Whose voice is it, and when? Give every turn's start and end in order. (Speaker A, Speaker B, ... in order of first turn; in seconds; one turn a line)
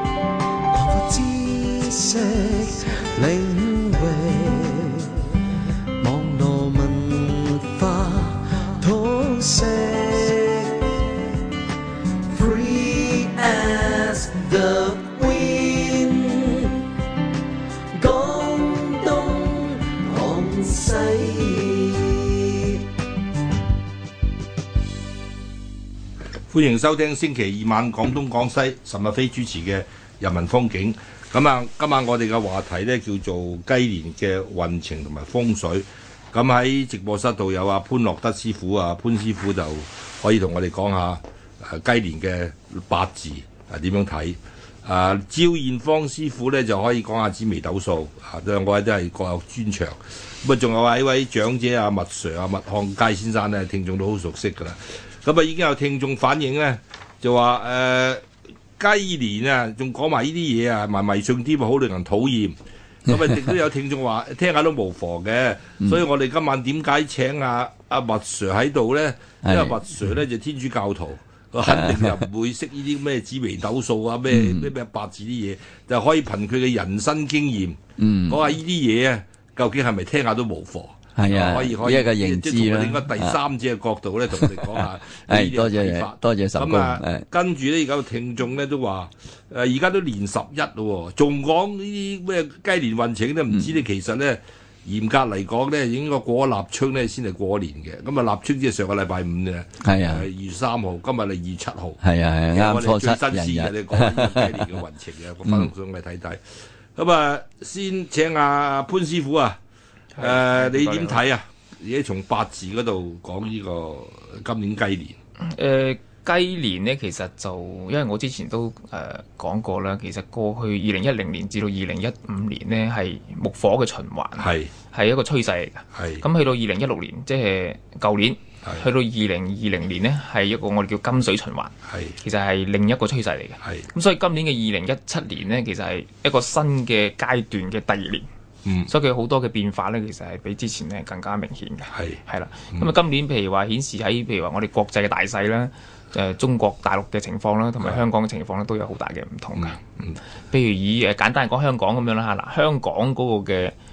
Speaker A: 0.7-5.2
Speaker A: 6.0-11.3
Speaker A: 12.3-16.9
Speaker A: 17.9-22.8
Speaker B: 26.5-58.2
Speaker B: 58.8-102.0
Speaker C: 63.1-63.4
Speaker C: 69.4-70.2
Speaker C: 71.6-72.2
Speaker C: 74.2-74.7
Speaker C: 78.0-78.5
Speaker C: 81.1-83.4
Speaker C: 84.3-87.3
Speaker C: 93.5-93.8
Speaker C: 99.8-100.3
Speaker C: 102.0-104.8
Speaker B: 102.5-106.4
Speaker C: 105.4-105.7
Speaker B: 107.0-109.6
Speaker D: 110.2-111.2
Speaker B: 110.2-115.2
Speaker D: 115.4-138.2
Speaker B: 124.4-124.7
Speaker B: 125.9-126.2
Speaker B: 131.9-132.2
Speaker D: 138.9-149.8
Speaker B: 141.9-142.2
Speaker D: 150.5-153.8